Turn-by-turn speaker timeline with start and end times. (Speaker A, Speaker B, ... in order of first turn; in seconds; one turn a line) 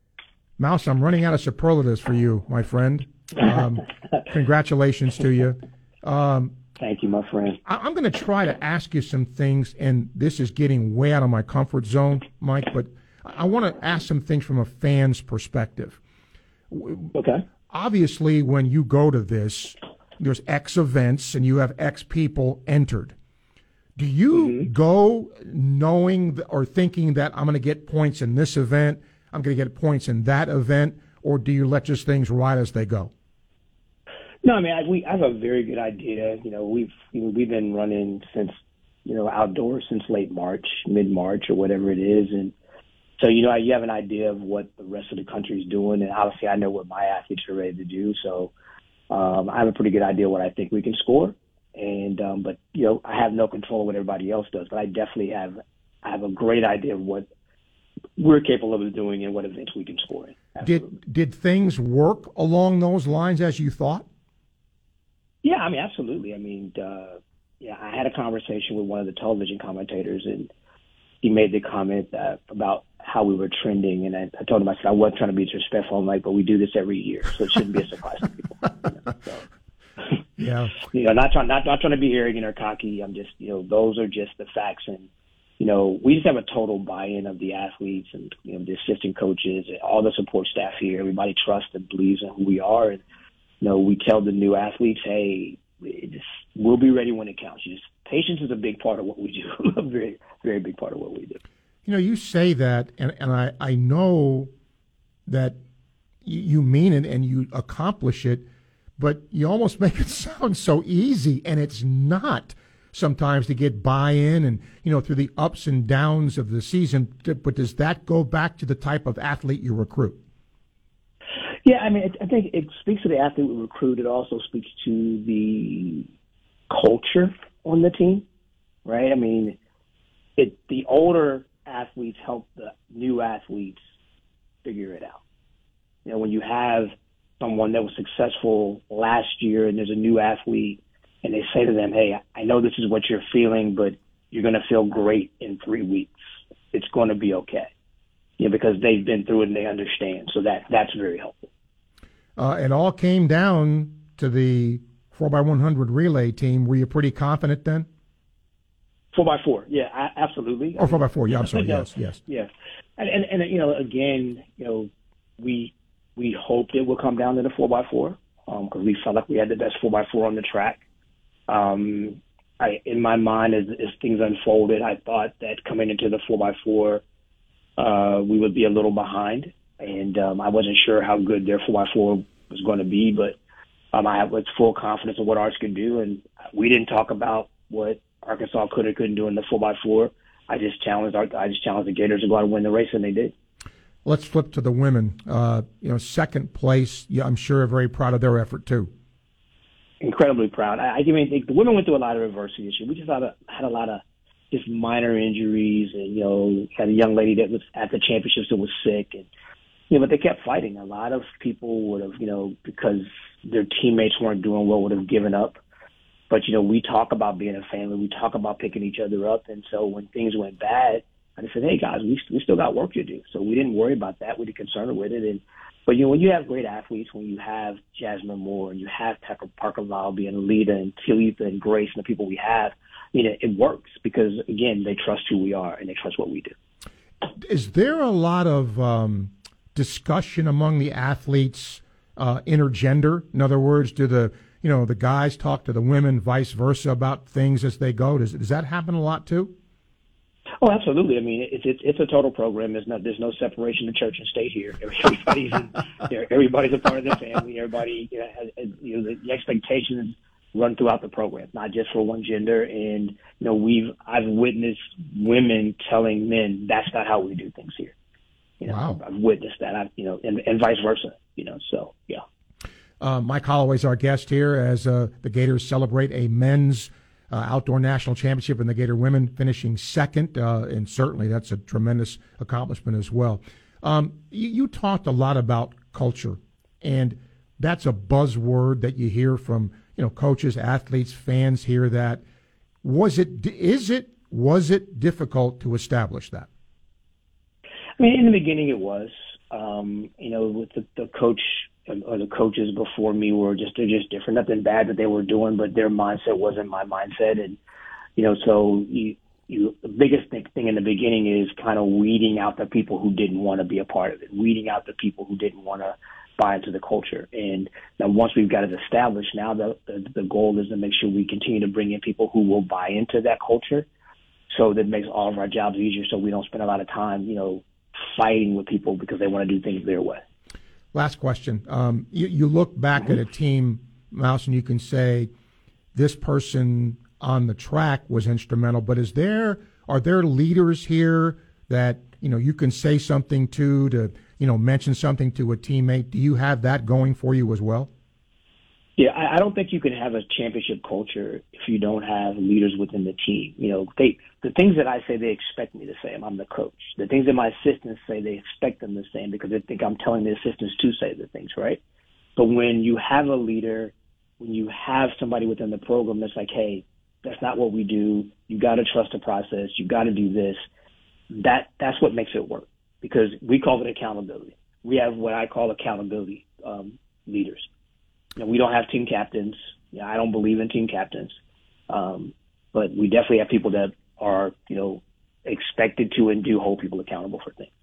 Speaker A: 0.6-6.5
Speaker B: 6.8-7.6
Speaker A: 7.7-16.0
Speaker A: 16.7-17.1
Speaker B: 17.1-17.4
Speaker A: 17.7-23.1
Speaker A: 24.0-33.1
Speaker B: 24.3-24.7
Speaker B: 34.4-42.5
Speaker B: 43.2-48.5
Speaker B: 49.1-57.3
Speaker B: 58.2-60.7
Speaker A: 60.6-64.1
Speaker B: 65.4-70.5
Speaker B: 71.2-79.4
Speaker A: 80.4-80.8
Speaker B: 80.9-93.0
Speaker B: 93.6-101.4
Speaker A: 101.8-104.5
Speaker A: 105.3-105.6
Speaker A: 106.2-108.5
Speaker A: 109.0-120.2
Speaker B: 121.6-126.1
Speaker B: 126.7-128.2
Speaker B: 128.8-129.6
Speaker B: 130.4-133.8
Speaker B: 134.6-135.2
Speaker B: 136.0-146.2
Speaker B: 146.7-147.7
Speaker B: 148.4-151.5
Speaker A: 152.4-157.9
Speaker B: 159.1-170.8
Speaker A: 160.8-162.2
Speaker B: 171.5-177.0
Speaker B: 177.8-183.4
Speaker B: 183.9-193.3
Speaker A: 194.1-198.9
Speaker B: 200.0-209.3
Speaker B: 209.9-215.6
Speaker B: 216.3-236.5
Speaker A: 237.4-249.5
Speaker B: 250.6-267.9
Speaker B: 268.6-272.2
Speaker A: 268.6-269.0
Speaker A: 273.0-292.2
Speaker A: 292.8-296.5
Speaker B: 298.0-307.6
Speaker B: 308.1-323.9
Speaker B: 324.5-330.2
Speaker A: 330.9-335.3
Speaker A: 335.9-347.9
Speaker B: 349.0-361.8
Speaker B: 362.4-370.6
Speaker B: 371.3-377.7
Speaker B: 378.4-381.4
Speaker B: 381.9-387.7